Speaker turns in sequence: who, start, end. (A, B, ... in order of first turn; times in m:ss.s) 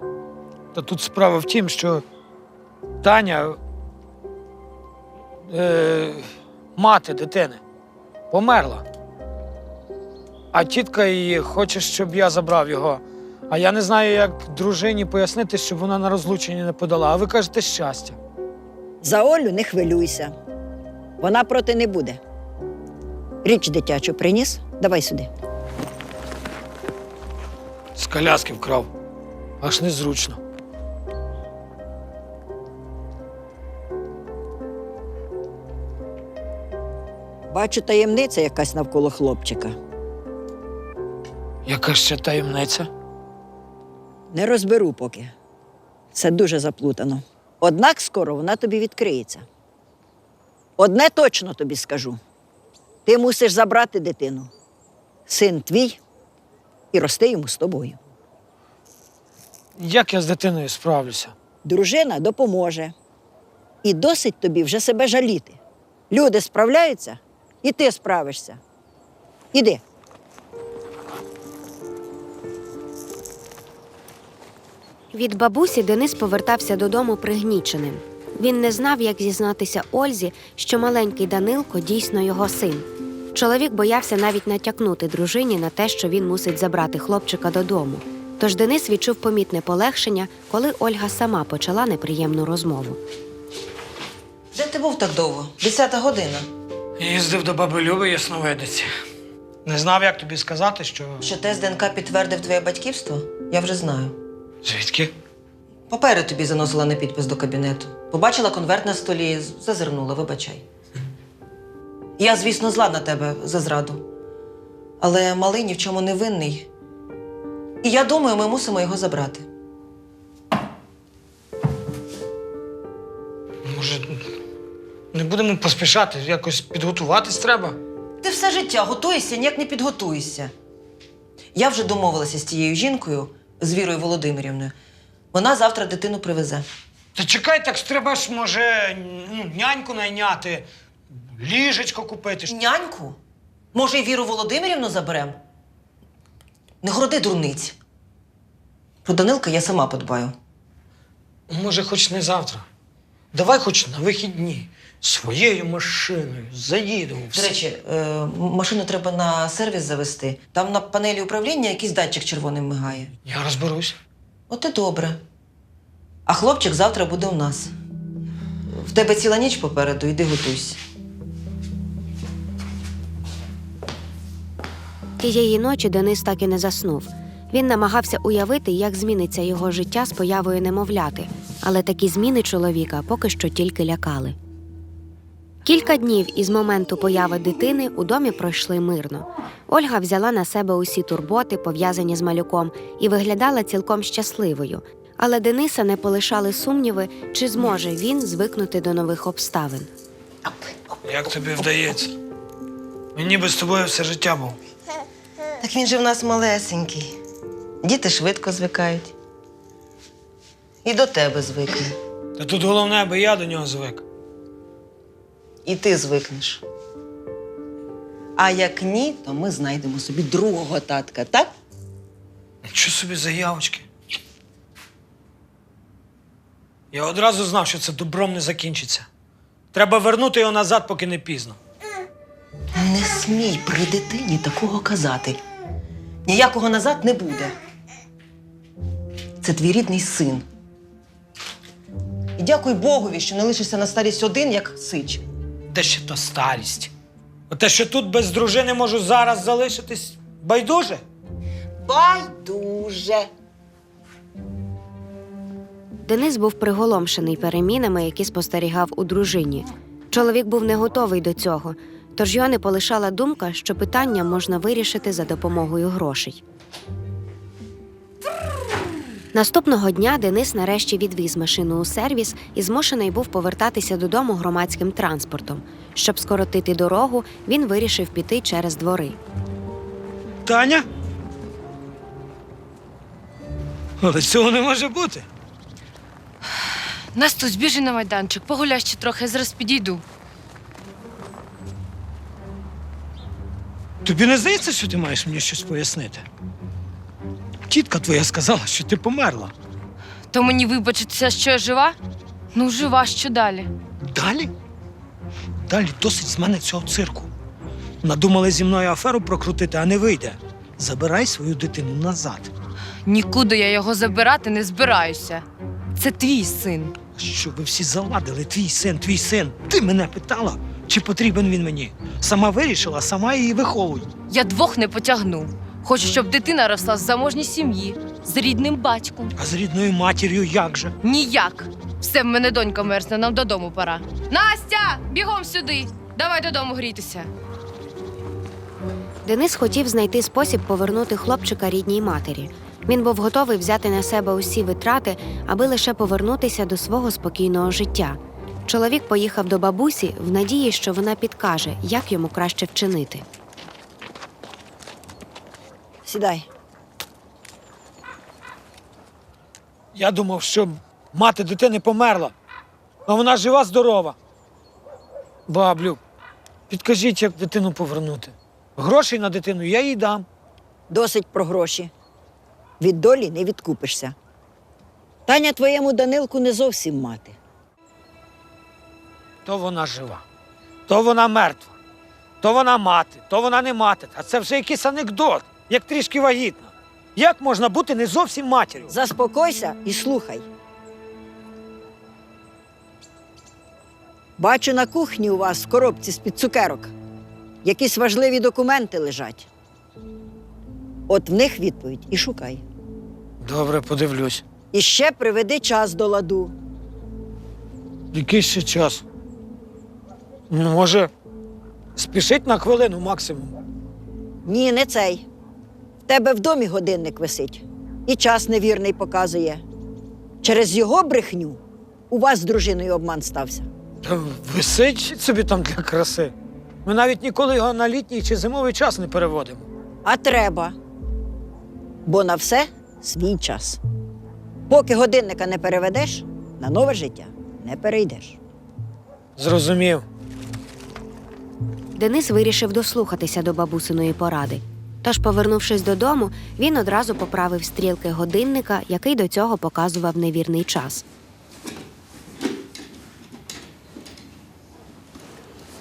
0:00.7-0:02.0 A
0:03.0-0:03.6 A
0:05.5-0:07.6 A
0:08.3-0:08.8 A
0:10.5-0:18.2 A
0:19.0-0:20.3 B
0:21.2-0:22.2 B
0:23.4-0:25.3 B
0:28.0-0:28.9 A
0:29.6-0:30.4 A
0:37.5-0:39.8 B
0:41.6-0:42.9 A
0:44.3-0:45.3 B
0:46.1-0:49.5 B
0:50.8-0:52.2 B
0:53.1-0:54.5 B
0:55.3-0:56.0 B
0:56.9-0:58.0 B
0:59.8-1:01.3 A
1:01.6-1:02.9 B
1:03.8-1:05.6 B
1:06.1-1:08.6 B
1:09.5-1:09.8 B
1:15.1-1:33.0 C
1:34.5-1:36.5 D
1:37.0-1:38.9 A
1:39.6-1:41.2 A
1:41.2-1:44.2 D
1:44.6-1:45.1 A
1:45.9-1:50.6 D
1:52.2-1:54.1 D
1:55.0-1:56.7 D
1:57.8-1:59.5 D
2:03.6-2:04.3 A
2:05.1-2:07.8 A
2:08.2-2:10.5 D
2:11.6-2:14.7 D
2:15.3-2:16.6 D
2:17.1-2:22.5 A
2:22.5-2:23.2 D
2:23.7-2:25.4 D
2:26.8-2:27.8 D
2:29.0-2:30.4 D
2:31.5-2:32.6 A
2:33.3-2:37.5 A
2:37.3-2:43.1 D
2:43.2-2:44.0 A
2:44.5-2:45.2 D
2:46.2-2:47.7 D
2:48.7-2:50.8 D
2:55.2-3:04.4 C
3:05.6-3:19.9 C
3:21.0-3:22.1 A
3:23.1-3:24.6 A
3:25.6-3:27.2 D
3:27.8-3:29.1 D
3:30.8-3:32.0 D
3:32.4-3:34.0 A
3:35.6-3:36.6 D
3:38.4-3:41.5 D
3:42.6-3:43.9 A
3:46.9-3:49.1 A
3:49.7-3:51.6 A
3:52.8-3:55.4 D
3:56.2-3:57.6 D
3:59.4-4:00.5 D
4:02.4-4:05.2 D
4:05.7-4:06.9 A
4:07.5-4:11.0 A
4:11.8-4:13.3 D
4:16.0-4:26.4 C
4:29.3-4:39.2 C
4:40.4-4:40.8 A
4:44.0-4:45.2 A
4:47.1-4:50.0 E
4:54.0-4:56.2 A
4:57.7-4:59.5 A
5:00.3-5:02.0 E
5:02.5-5:03.7 E
5:04.0-5:04.5 A
5:05.7-5:07.3 A
5:08.0-5:12.5 A
5:13.1-5:17.0 E
5:17.2-5:24.1 A
5:24.3-5:29.3 E
5:29.4-5:30.9 A
5:31.0-5:37.3 E
5:39.2-5:53.2 C
5:56.0-5:56.5 B
5:59.9-6:02.3 A
6:03.1-6:04.2 A
6:05.5-6:06.0 A
6:06.7-6:10.2 A
6:10.9-6:11.9 B
6:12.8-6:14.1 B
6:15.3-6:17.4 B
6:19.4-6:20.2 A
6:20.9-6:21.7 A
6:22.4-6:28.9 A
6:28.9-6:30.4 B
6:34.4-6:36.9 B
6:37.6-6:39.5 B
6:41.1-6:42.6 B
6:43.4-6:44.4 A
6:44.7-6:46.6 B
6:48.1-6:49.0 A
6:50.5-6:51.1 A
6:52.0-6:53.6 A
6:54.4-6:55.2 B
6:56.1-6:59.6 B
7:00.4-7:03.7 B
7:04.0-7:06.3 A
7:06.8-7:09.6 A
7:10.0-7:10.8 B
7:12.1-7:13.8 B
7:14.7-7:18.4 B
7:19.4-7:20.0 A
7:22.0-7:31.0 C